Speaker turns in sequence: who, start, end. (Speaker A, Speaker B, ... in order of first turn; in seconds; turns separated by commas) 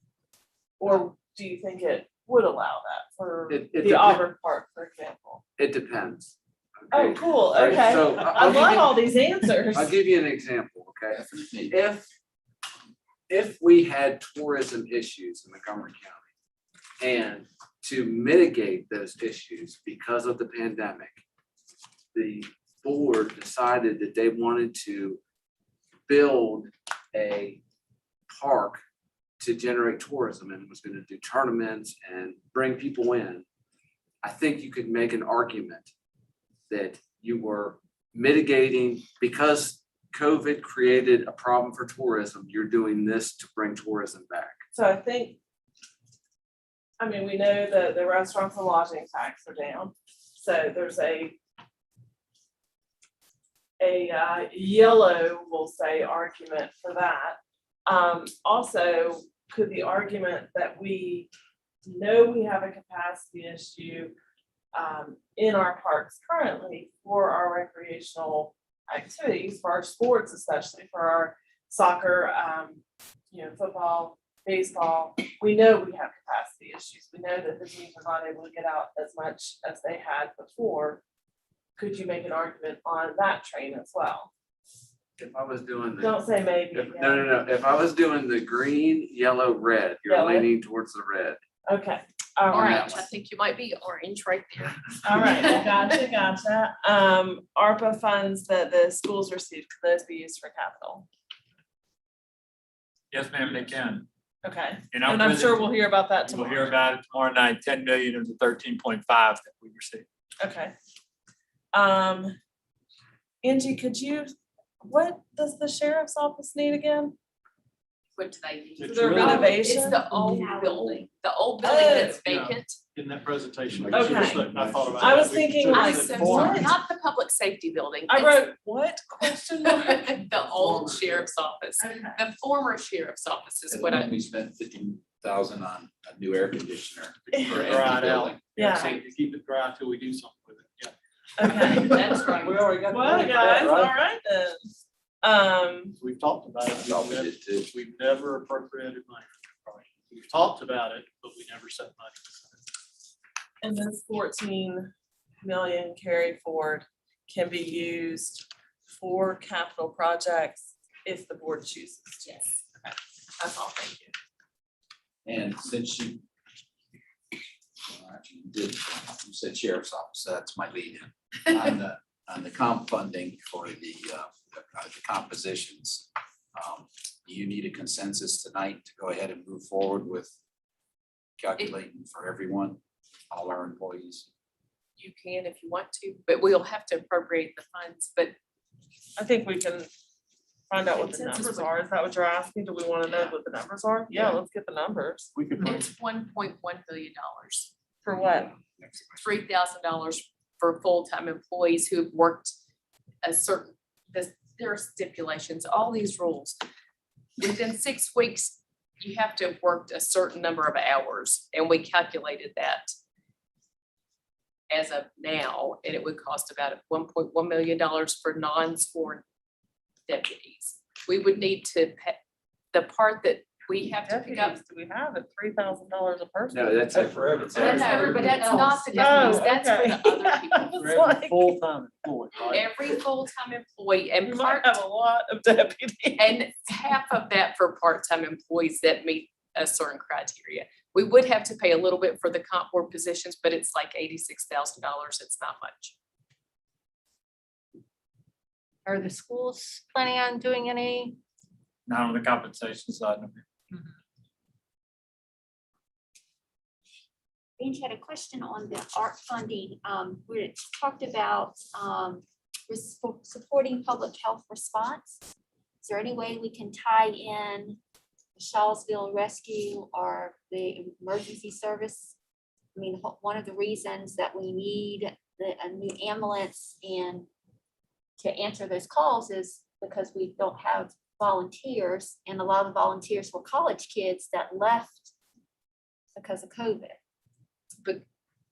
Speaker A: 0.8-5.4, Speaker B: 3.5-4.2, Speaker B: 5.6-9.0, Speaker A: 6.9-10.0, Speaker B: 9.7-12.1, Speaker C: 11.1-11.7, Speaker B: 13.3-16.2, Speaker B: 17.0-21.2, Speaker B: 22.1-25.2, Speaker B: 26.1-27.6, Speaker B: 28.3-28.8, Speaker B: 29.4-33.4, Speaker B: 34.2-35.9, Speaker B: 36.7-44.6, Speaker A: 44.7-45.4, Speaker A: 47.0-51.4, Speaker A: 53.8-61.3, Speaker A: 61.8-64.1, Speaker A: 64.7-81.0, Speaker A: 81.8-84.3, Speaker B: 85.2-86.2, Speaker A: 86.0-87.3, Speaker B: 86.7-91.4, Speaker A: 90.0-90.5, Speaker A: 91.7-93.0, Speaker D: 92.5-95.8, Speaker B: 92.5-93.1, Speaker A: 95.0-101.1, Speaker E: 103.1-104.0, Speaker A: 104.4-106.8, Speaker E: 104.9-105.7, Speaker E: 106.3-110.0, Speaker A: 110.4-110.7, Speaker A: 111.7-112.3, Speaker A: 113.4-117.2, Speaker D: 118.2-122.8, Speaker F: 118.8-119.7, Speaker A: 118.9-120.6, Speaker G: 120.2-121.0, Speaker A: 121.6-122.2, Speaker F: 122.2-126.7, Speaker C: 123.7-125.3, Speaker A: 123.9-126.7, Speaker D: 125.7-128.5, Speaker A: 128.1-130.9, Speaker D: 129.2-134.1, Speaker A: 131.8-132.2, Speaker C: 133.7-138.6, Speaker F: 137.3-143.9, Speaker A: 137.3-137.7, Speaker A: 138.5-138.9, Speaker A: 141.4-144.7, Speaker D: 141.4-143.4, Speaker A: 145.2-145.9, Speaker F: 146.0-152.6, Speaker C: 146.8-147.6, Speaker A: 153.6-154.9, Speaker A: 155.4-164.1, Speaker C: 165.2-166.2, Speaker C: 167.9-180.3, Speaker C: 181.4-182.8, Speaker C: 183.3-184.3, Speaker D: 185.0-188.3, Speaker A: 189.2-189.9, Speaker A: 190.7-195.3, Speaker D: 190.8-191.7, Speaker F: 194.1-194.4, Speaker F: 195.3-195.9, Speaker D: 195.6-197.7, Speaker A: 198.0-198.5, Speaker C: 198.6-199.2, Speaker D: 199.2-202.5, Speaker D: 203.2-206.6, Speaker D: 207.4-212.9, Speaker D: 214.7-219.2, Speaker D: 220.1-222.2, Speaker D: 222.7-224.6, Speaker A: 224.0-227.0, Speaker B: 226.5-228.6, Speaker E: 227.0-228.4, Speaker C: 227.6-228.2, Speaker D: 227.6-230.8, Speaker H: 228.7-229.1, Speaker A: 228.9-231.6, Speaker F: 230.8-232.9, Speaker D: 232.4-234.8, Speaker A: 234.2-236.3, Speaker D: 236.2-245.9, Speaker H: 248.8-251.2, Speaker E: 251.9-253.4, Speaker G: 257.6-265.2, Speaker G: 265.8-267.8, Speaker G: 268.4-272.1, Speaker G: 272.8-277.3, Speaker G: 278.2-285.1, Speaker G: 286.1-287.0